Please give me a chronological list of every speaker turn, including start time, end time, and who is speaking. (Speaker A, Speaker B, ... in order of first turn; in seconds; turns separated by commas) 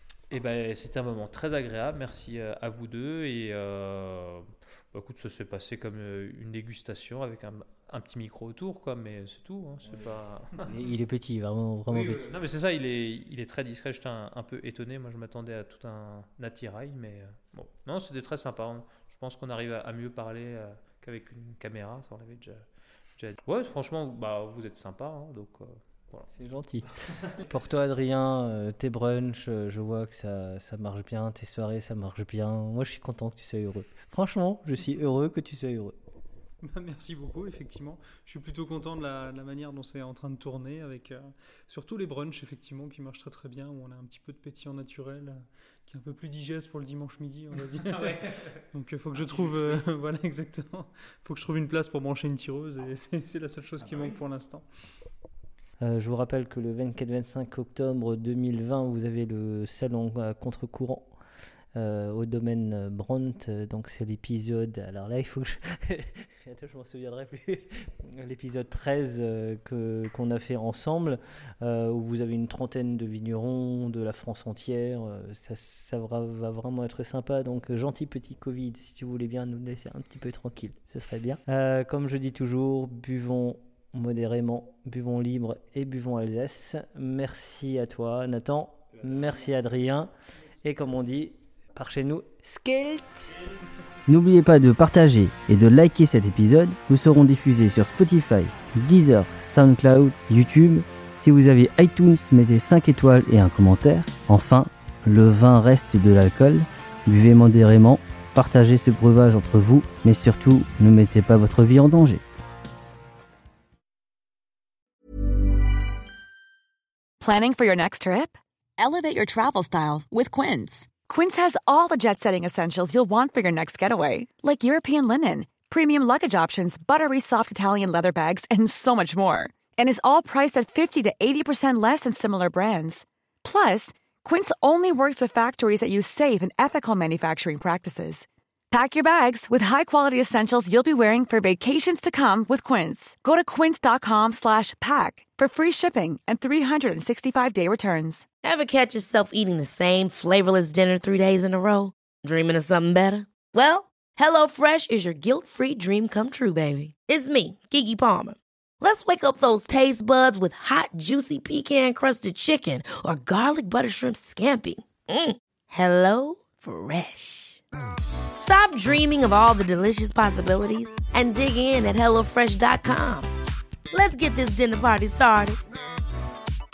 Speaker A: 0.3-10.6, Speaker B: 10.6-12.3, Speaker A: 11.9-22.6, Speaker A: 23.2-26.3, Speaker B: 26.3-26.9, Speaker B: 27.4-36.0, Speaker C: 36.6-54.7, Speaker A: 47.7-48.6, Speaker A: 49.1-49.9, Speaker A: 53.8-54.2, Speaker B: 55.8-61.1, Speaker B: 61.8-90.1, Speaker B: 90.6-93.3, Speaker B: 94.1-112.2, Speaker D: 117.2-148.3, Speaker E: 148.4-167.6, Speaker E: 168.4-173.3, Speaker E: 173.9-175.6